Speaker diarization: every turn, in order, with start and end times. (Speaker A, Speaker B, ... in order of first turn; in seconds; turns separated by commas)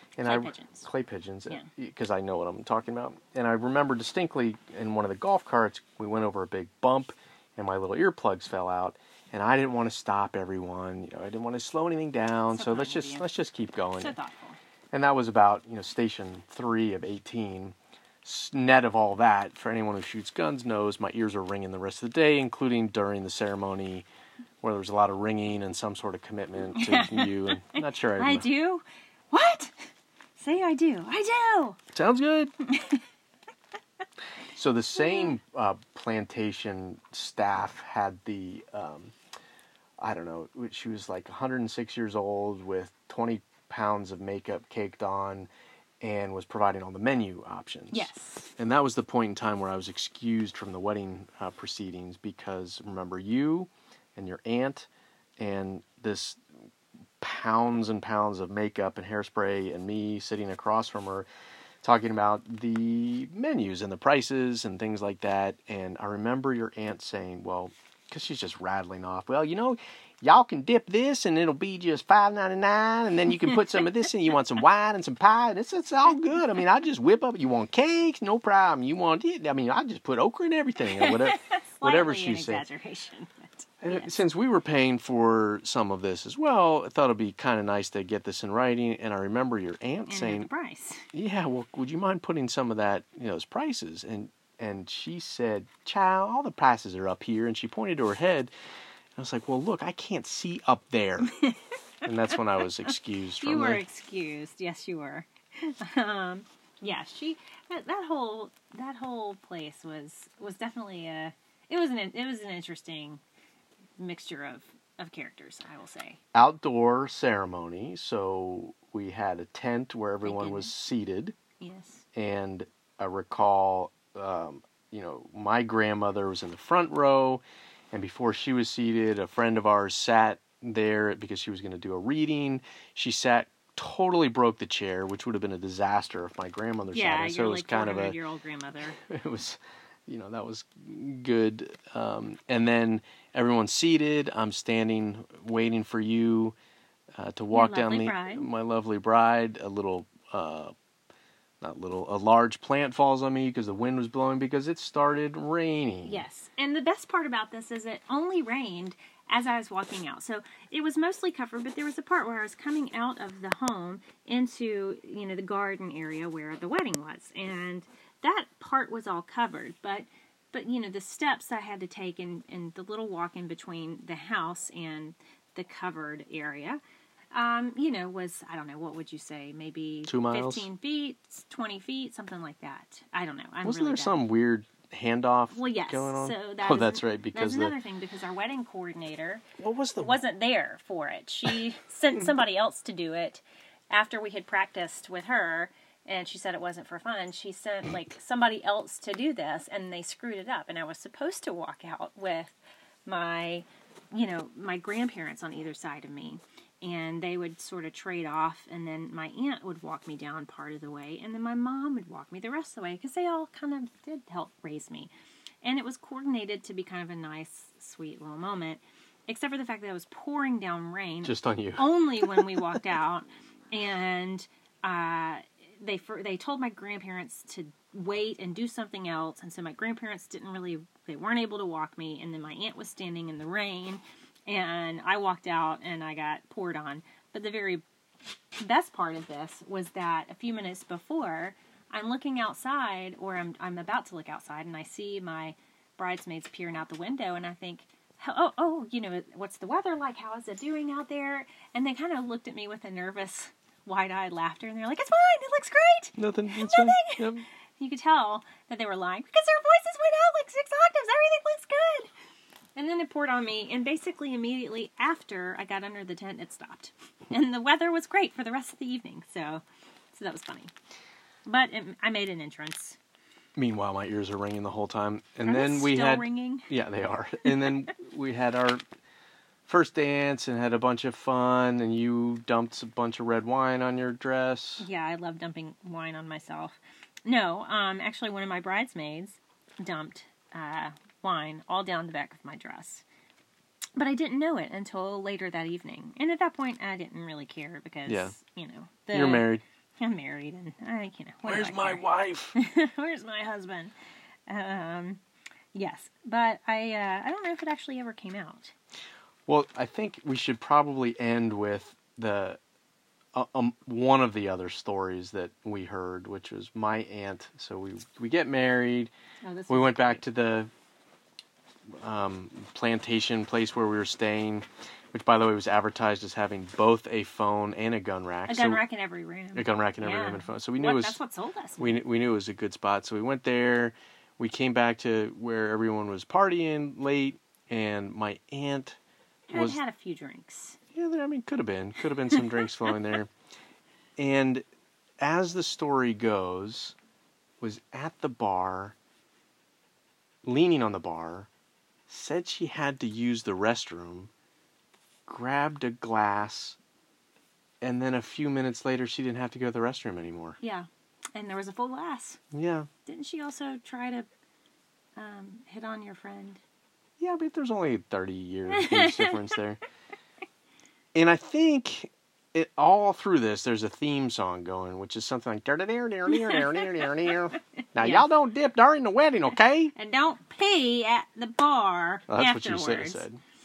Speaker A: 0.2-14.2, Speaker B: 0.2-0.9, Speaker B: 12.5-13.3, Speaker B: 14.0-14.6, Speaker A: 14.9-24.1, Speaker A: 24.6-28.5, Speaker B: 26.8-29.8, Speaker B: 30.4-31.8, Speaker A: 31.9-32.5, Speaker B: 32.6-33.0, Speaker A: 34.6-39.1, Speaker B: 35.0-35.3, Speaker A: 40.0-45.5, Speaker A: 46.0-56.4, Speaker B: 47.9-48.5, Speaker A: 57.2-61.3, Speaker A: 61.8-82.7, Speaker B: 81.0-84.2, Speaker A: 83.8-90.5, Speaker B: 90.1-91.1, Speaker A: 91.1-98.5, Speaker A: 99.2-101.3, Speaker A: 102.0-103.8, Speaker B: 103.4-113.2, Speaker B: 114.0-116.2, Speaker A: 116.3-121.3, Speaker B: 120.2-120.7, Speaker B: 121.6-122.0, Speaker A: 122.2-138.2, Speaker B: 136.9-139.0, Speaker A: 139.0-146.6, Speaker A: 147.2-150.7, Speaker B: 147.5-148.5, Speaker A: 151.6-156.2, Speaker B: 156.1-176.8, Speaker B: 177.3-184.2, Speaker A: 180.1-180.7, Speaker A: 183.6-187.8, Speaker B: 185.5-189.4, Speaker A: 189.6-190.2, Speaker B: 190.0-215.1, Speaker B: 215.6-237.8, Speaker A: 221.2-222.5, Speaker B: 238.6-257.3, Speaker A: 256.2-257.5, Speaker B: 257.8-262.1, Speaker B: 262.8-269.6, Speaker B: 270.1-270.7, Speaker B: 271.4-273.0, Speaker A: 273.6-278.8, Speaker B: 275.4-276.7, Speaker A: 279.7-284.9, Speaker B: 284.8-293.1, Speaker B: 294.0-303.9, Speaker A: 298.1-298.3, Speaker A: 299.1-299.6, Speaker A: 301.4-302.6, Speaker B: 304.5-305.2, Speaker B: 305.7-308.7, Speaker A: 309.5-312.6, Speaker A: 313.3-319.1, Speaker B: 319.4-320.2, Speaker A: 319.7-320.7, Speaker A: 322.0-328.8, Speaker B: 328.5-332.0, Speaker A: 329.5-331.2, Speaker A: 331.8-339.0, Speaker A: 339.5-339.8, Speaker B: 339.5-340.8, Speaker A: 340.9-343.3, Speaker A: 344.2-344.6, Speaker A: 345.2-346.9, Speaker A: 347.6-348.9, Speaker A: 350.4-351.5, Speaker A: 352.1-354.3, Speaker A: 355.3-356.8, Speaker A: 357.8-360.6, Speaker B: 360.6-362.4, Speaker A: 362.5-362.9, Speaker B: 363.1-364.3, Speaker B: 365.2-366.6, Speaker A: 367.2-369.8, Speaker B: 368.7-369.4, Speaker A: 371.1-379.9, Speaker B: 376.3-377.1, Speaker B: 378.0-378.3, Speaker B: 379.9-383.2, Speaker A: 382.3-383.4